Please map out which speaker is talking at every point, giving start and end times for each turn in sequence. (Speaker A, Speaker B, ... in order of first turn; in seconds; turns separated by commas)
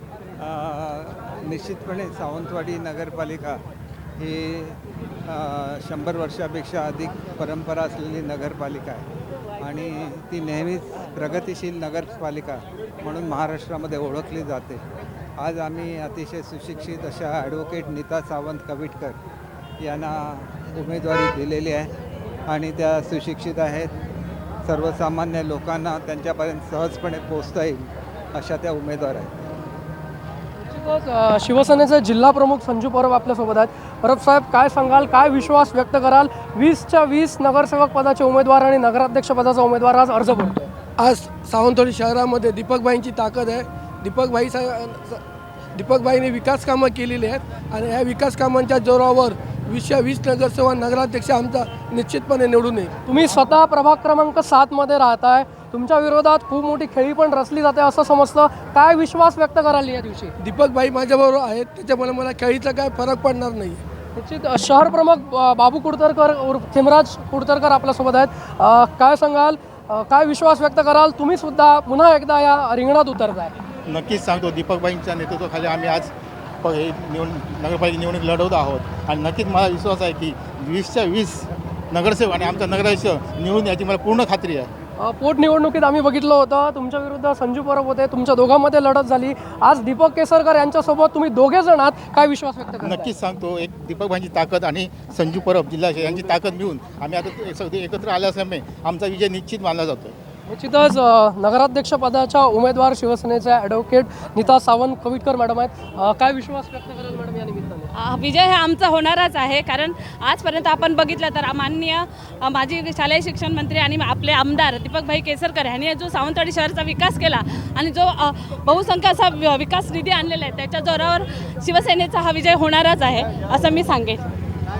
Speaker A: 0.4-3.6, Speaker A: 4.2-9.1, Speaker A: 9.6-14.8, Speaker A: 15.4-19.2, Speaker A: 19.8-21.9, Speaker A: 22.5-23.9, Speaker A: 24.6-29.5, Speaker B: 30.6-40.7, Speaker C: 41.0-45.2, Speaker C: 45.7-53.0, Speaker B: 53.0-60.3, Speaker C: 60.4-63.8, Speaker B: 64.2-73.5, Speaker D: 73.9-84.7, Speaker B: 85.0-93.1, Speaker D: 92.8-100.1, Speaker B: 100.5-107.9, Speaker E: 107.9-124.2